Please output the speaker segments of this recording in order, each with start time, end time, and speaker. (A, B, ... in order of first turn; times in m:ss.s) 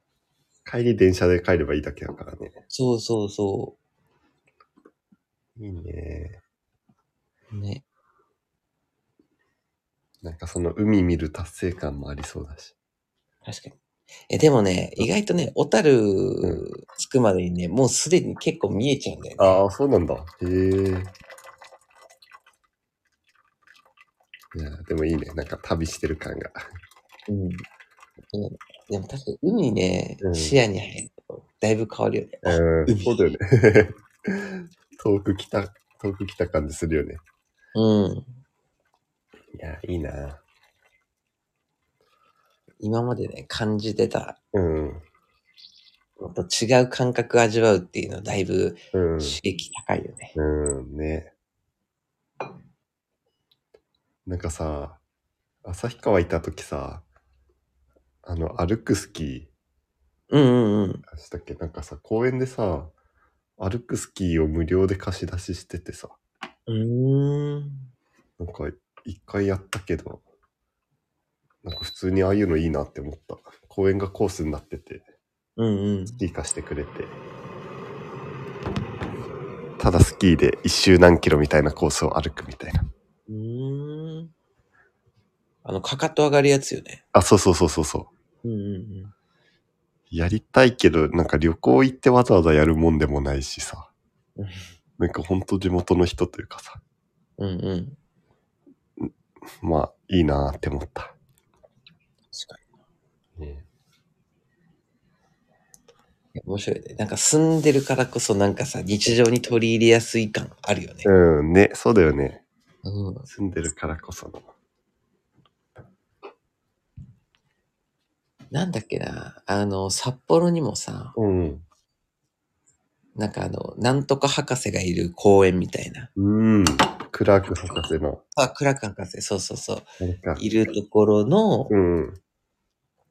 0:00.6-0:02.5 A
0:02.7-0:03.8 B
0:05.6-0:06.4 A
0:07.5-0:07.8 B
0:10.2-0:12.7 A
0:13.4-0:13.8 B
0:14.3-0:19.6 B
0:19.4-0:21.1 A
0:24.5-0:26.6 A
0:27.3-0:27.6 B
0:28.3-0:33.2 B
0:30.2-0:30.6 A
0:32.4-0:37.2 A
0:37.7-0:38.4 B
0:39.6-0:40.4 A
0:42.8-0:44.4 B
0:44.5-0:45.0 A
0:46.2-0:50.3 B
0:48.9-0:49.4 A
0:50.4-0:51.3 A
0:54.2-0:55.0 A
0:55.6-0:57.0 A
0:58.2-0:59.5 A
1:00.3-1:01.0 B
1:01.1-1:02.9 A
1:03.6-1:06.2 A
1:06.7-1:07.9 B
1:08.4-1:10.2 A
1:11.6-1:15.0 A
1:15.6-1:16.2 B
1:16.1-1:17.2 A
1:19.8-1:22.8 A
1:23.3-1:24.3 B
1:25.6-1:27.0 B
1:27.1-1:28.1 A
1:28.4-1:29.1 B
1:30.1-1:33.9 A
1:34.4-1:34.6 B
1:35.0-1:36.8 A
1:37.4-1:38.0 B
1:39.6-1:41.1 A
1:42.3-1:42.6 B
1:43.4-1:43.6 A
1:46.4-1:51.1 B
1:51.0-1:52.4 A
1:52.8-1:53.3 B
1:53.3-1:54.5 A
1:58.5-2:01.2 B
2:01.2-2:01.6 A
2:03.2-2:06.1 B
2:06.2-2:08.2 A
2:08.4-2:09.8 B
2:10.0-2:10.4 A
2:10.4-2:11.7 B
2:11.7-2:12.2 A